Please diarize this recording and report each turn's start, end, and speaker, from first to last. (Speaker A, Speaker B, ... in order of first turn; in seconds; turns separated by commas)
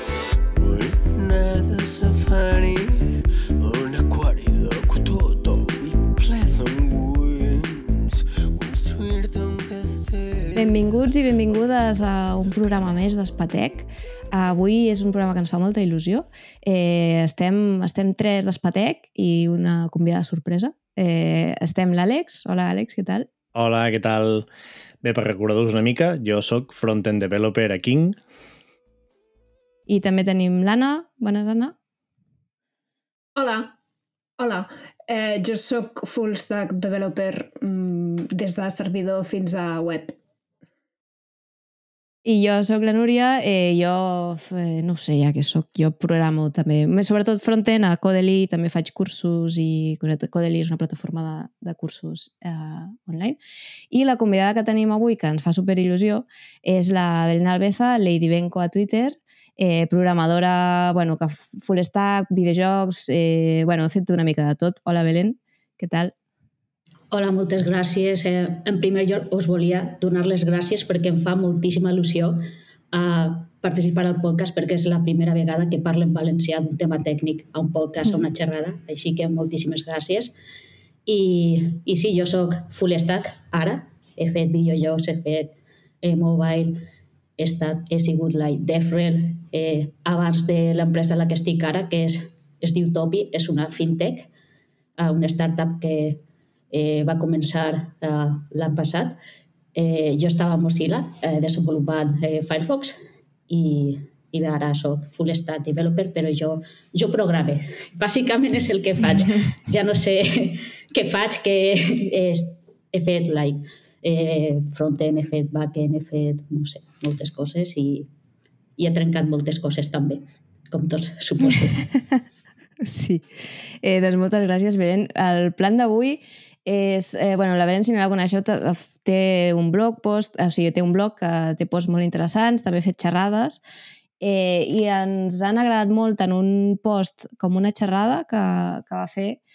Speaker A: 0.6-11.7, Speaker B: 10.6-23.3, Speaker C: 23.5-24.5, Speaker C: 25.0-28.2, Speaker B: 29.9-31.7, Speaker D: 33.4-33.7, Speaker D: 34.4-40.1, Speaker B: 42.2-53.4, Speaker B: 53.9-66.1, Speaker E: 67.1-72.4, Speaker E: 72.9-80.3, Speaker E: 81.0-86.8, Speaker E: 87.4-94.3, Speaker E: 95.0-99.2, Speaker E: 99.7-118.1, Speaker E: 118.8-121.8, Speaker B: 122.8-133.6, Speaker B: 134.2-139.4